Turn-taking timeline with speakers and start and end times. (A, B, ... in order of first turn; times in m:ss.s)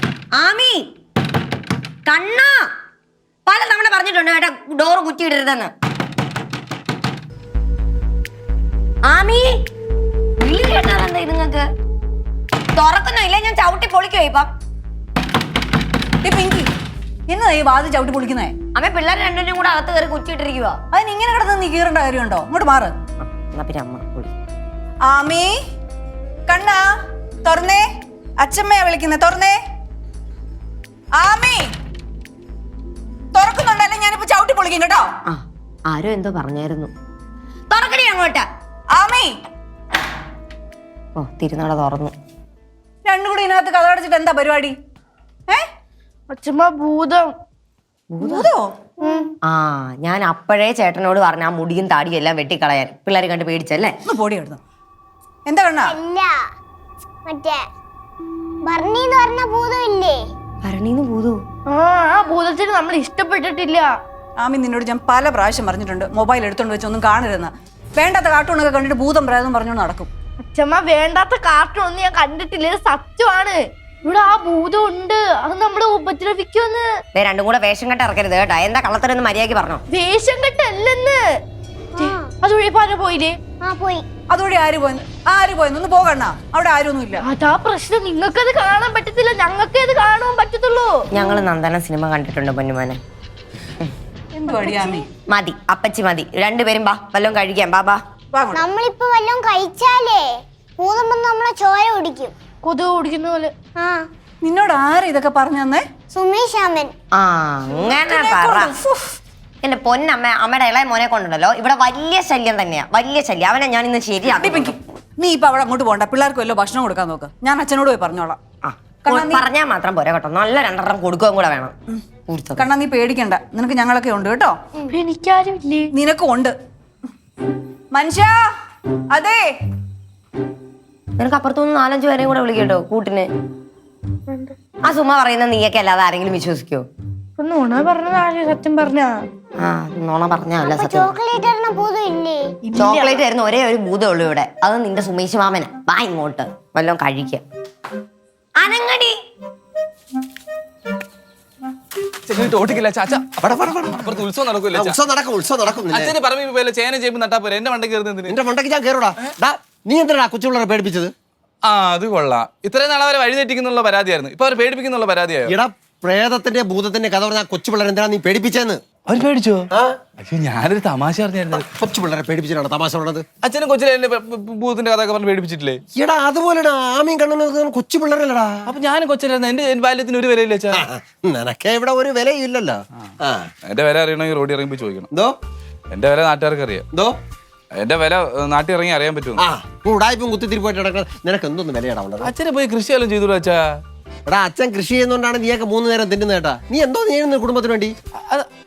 0:00.3-0:00.9 A
0:02.1-0:02.7 A
0:03.5-0:05.7 A
0:09.0-0:09.6 A
0:10.4-0:11.7 A
0:12.8-0:14.5 A
0:16.2-0:16.7 B
0:17.3-0:18.5 B
0:18.8-0:20.8 A
0:20.9-0:22.9 B
0:23.2-0:24.3 A
0:25.1-0:25.6 B
0:26.5-0:26.9 B
0:27.5-0:27.8 B
0:28.4-0:29.6 B
0:31.2-0:31.7 B
0:33.4-0:35.1 B
0:35.3-0:36.9 A
0:37.7-0:38.5 A
0:39.0-0:39.3 B
0:41.2-0:42.2 A
0:43.1-0:44.8 B
0:46.3-0:47.4 C
0:48.1-0:48.5 A
0:48.3-0:48.7 B
0:49.0-0:49.3 C
0:49.4-0:54.0 A
0:54.1-0:54.6 B
0:55.5-0:56.0 B
0:55.9-0:56.4 D
0:57.3-0:57.6 D
0:58.7-1:00.2 D
1:00.6-1:01.4 A
1:01.7-1:03.9 C
1:04.4-1:10.1 B
1:10.4-1:16.8 C
1:17.2-1:19.8 A
1:19.9-1:21.2 C
1:22.0-1:22.3 D
1:22.0-1:23.4 C
1:23.6-1:24.1 D
1:24.3-1:27.2 B
1:27.2-1:31.0 C
1:31.1-1:31.5 D
1:31.2-1:33.0 A
1:34.4-1:35.1 B
1:35.2-1:38.0 A
1:38.3-1:38.7 B
1:38.5-1:40.3 D
1:40.8-1:42.3 D
1:42.6-1:43.5 C
1:43.8-1:44.0 D
1:44.4-1:45.8 B
1:46.1-1:46.9 D
1:47.1-1:48.8 A
1:48.0-1:49.2 B
1:48.0-1:48.4 D
1:49.6-1:54.8 A
1:54.4-1:58.4 B
1:58.7-2:01.8 A
1:59.0-1:59.4 B
2:02.3-2:02.6 A
2:02.6-2:04.6 B
2:04.9-2:05.9 C
2:05.9-2:06.5 B
2:07.9-2:08.4 B
2:09.1-2:09.5 B
2:11.2-2:13.3 A
2:14.9-2:16.9 A
2:17.4-2:19.2 C
2:19.6-2:21.1 A
2:20.6-2:22.4 D
2:22.7-2:23.2 C
2:22.8-2:27.4 A
2:28.6-2:29.2 A
2:32.3-2:35.0 E
2:33.4-2:36.2 F
2:35.9-2:38.4 E
2:38.2-2:41.1 F
2:41.7-2:45.5 E
2:45.5-2:48.8 F
2:49.1-2:49.7 E
2:49.7-2:50.0 F
2:50.2-2:51.7 E
2:51.5-2:53.3 F
2:53.4-2:55.8 E
2:56.0-2:58.7 F
2:58.7-3:00.8 E
3:00.7-3:03.5 F
3:03.7-3:05.1 E
3:05.9-3:06.9 E
3:07.8-3:09.4 E
3:09.4-3:12.3 F
3:12.2-3:13.8 E
3:14.3-3:17.9 F